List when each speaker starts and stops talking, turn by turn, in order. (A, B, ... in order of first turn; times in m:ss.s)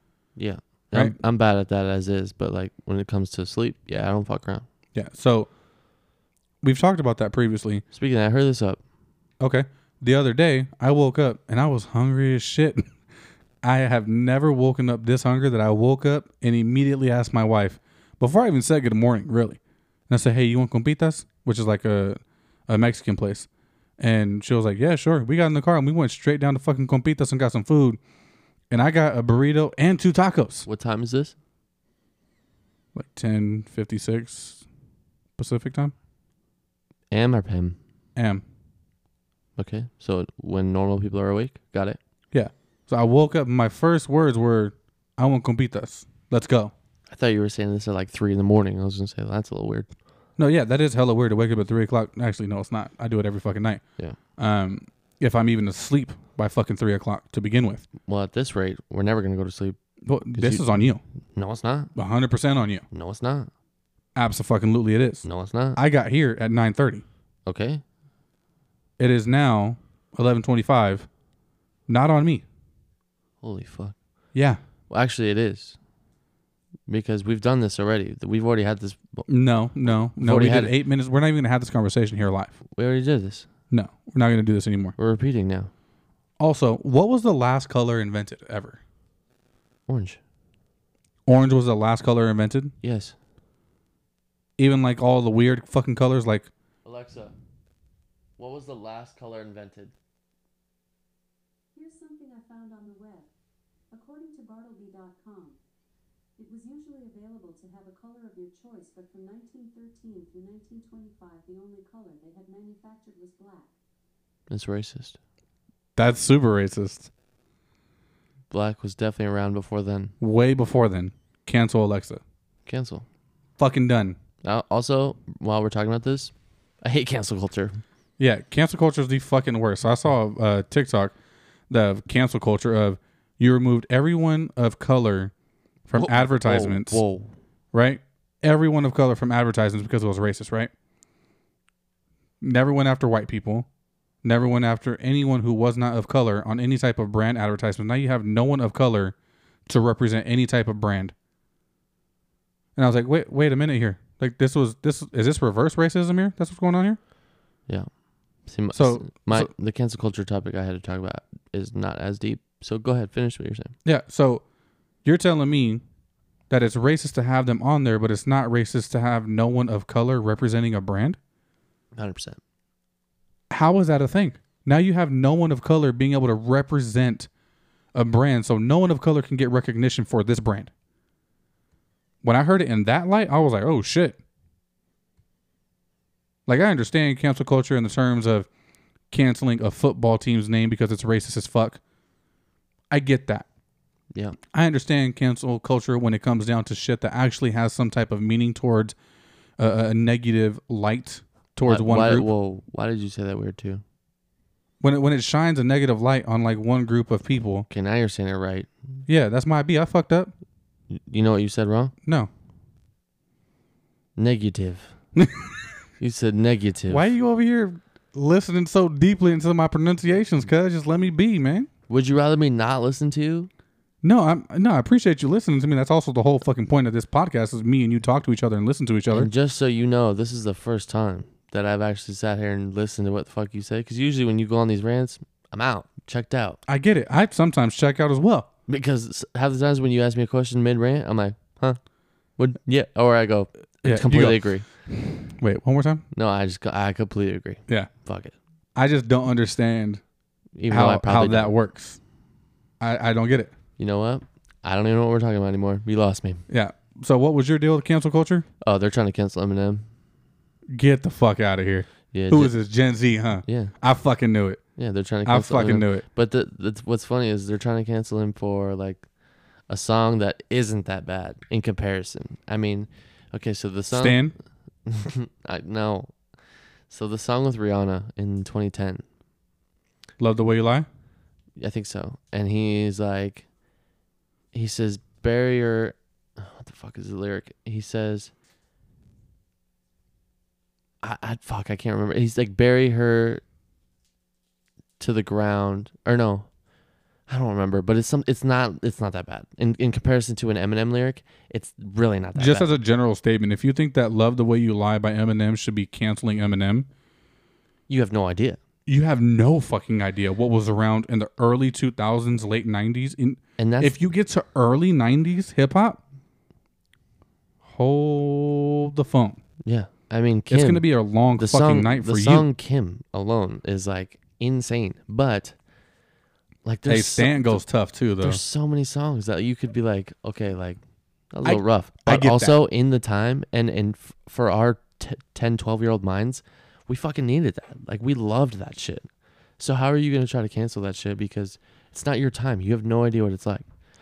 0:00.4-0:04.7 A
0:04.9-0:05.5 B
0:06.6-0:07.8 B
0:07.9-0:08.8 A
0:09.4-0:12.9 B
0:13.6-0:23.5 B
0:24.0-0:28.0 B
0:28.7-0:30.7 B
0:30.7-0:31.4 A
0:33.0-0:34.6 B
0:35.4-0:35.9 B
0:37.1-0:37.8 A
0:38.2-0:38.4 B
0:39.6-0:42.0 A
0:42.3-0:46.7 B
0:47.1-0:49.9 A
0:50.4-0:53.8 B
0:54.4-0:57.8 B
0:58.0-0:59.8 A
1:00.0-1:01.0 B
1:00.4-1:00.7 A
1:01.3-1:01.9 A
1:02.0-1:02.8 B
1:02.9-1:03.5 A
1:04.2-1:07.0 B
1:05.2-1:05.8 A
1:07.5-1:07.8 A
1:09.0-1:11.1 B
1:11.9-1:12.4 B
1:13.4-1:14.0 A
1:14.3-1:14.6 B
1:14.9-1:15.8 A
1:16.9-1:19.3 A
1:19.3-1:22.6 B
1:19.9-1:20.7 A
1:22.7-1:23.5 A
1:23.7-1:25.0 B
1:25.0-1:25.7 A
1:26.4-1:28.8 B
1:29.9-1:30.2 A
1:31.3-1:32.7 B
1:32.8-1:33.2 A
1:34.6-1:36.5 B
1:36.8-1:37.3 A
1:38.4-1:39.9 A
1:41.7-1:43.3 C
1:43.9-1:45.6 C
1:46.4-1:53.7 C
1:54.5-1:55.2 A
1:56.0-1:57.1 B
1:58.5-2:00.2 A
2:00.2-2:02.2 B
2:02.7-2:03.0 A
2:03.6-2:04.2 B
2:04.4-2:07.8 A
2:08.2-2:11.2 B
2:11.7-2:15.3 B
2:15.9-2:17.0 B
2:16.0-2:17.4 A
2:17.7-2:20.7 B
2:22.4-2:23.7 B
2:24.2-2:29.2 B
2:29.7-2:31.1 B
2:32.8-2:37.0 B
2:38.4-2:43.7 A
2:38.7-2:39.5 B
2:43.8-2:44.4 B
2:45.0-2:45.8 B
2:46.5-2:51.2 B
2:52.0-2:52.4 A
2:53.5-2:57.3 B
2:57.9-3:00.7 B
3:02.2-3:04.2 B
3:06.5-3:08.5 B
3:09.1-3:11.8 B
3:12.9-3:13.5 B
3:14.5-3:19.0 B
3:19.6-3:22.3 B
3:21.7-3:23.8 A
3:24.8-3:27.7 B
3:27.7-3:28.7 A
3:29.1-3:30.3 B
3:30.9-3:31.9 A
3:34.2-3:35.0 A
3:35.2-3:35.6 B
3:36.0-3:37.1 A
3:36.9-3:41.7 B
3:41.9-3:43.5 A
3:44.0-3:49.3 B
3:49.1-3:56.6 A
3:56.7-3:58.5 B
3:58.7-4:01.8 A
4:02.4-4:04.6 A
4:03.8-4:06.0 B
4:06.1-4:08.4 A
4:08.8-4:10.0 B
4:10.6-4:11.5 A
4:10.7-4:12.0 B
4:12.8-4:13.5 B
4:13.8-4:16.4 A
4:16.5-4:18.5 B
4:18.6-4:19.8 A
4:20.7-4:24.6 B
4:22.1-4:22.5 A
4:23.4-4:23.7 A
4:24.8-4:29.1 A
4:25.2-4:26.0 B
4:29.7-4:34.2 A
4:33.9-4:34.4 B
4:34.8-4:36.2 A
4:36.9-4:39.0 A
4:40.2-4:40.9 B
4:41.6-4:43.5 A
4:44.5-4:48.3 A
4:51.0-4:53.4 A
4:55.0-4:56.5 A
4:57.3-5:02.7 A
5:02.4-5:06.9 B
5:07.9-5:08.6 A
5:08.9-5:16.0 B
5:13.6-5:14.0 A
5:17.7-5:19.4 B
5:19.6-5:25.6 A
5:20.5-5:22.5 B
5:26.6-5:27.6 A
5:26.8-5:28.4 B
5:28.2-5:30.8 A
5:31.3-5:39.1 A
5:31.4-5:32.6 B
5:39.6-5:43.6 A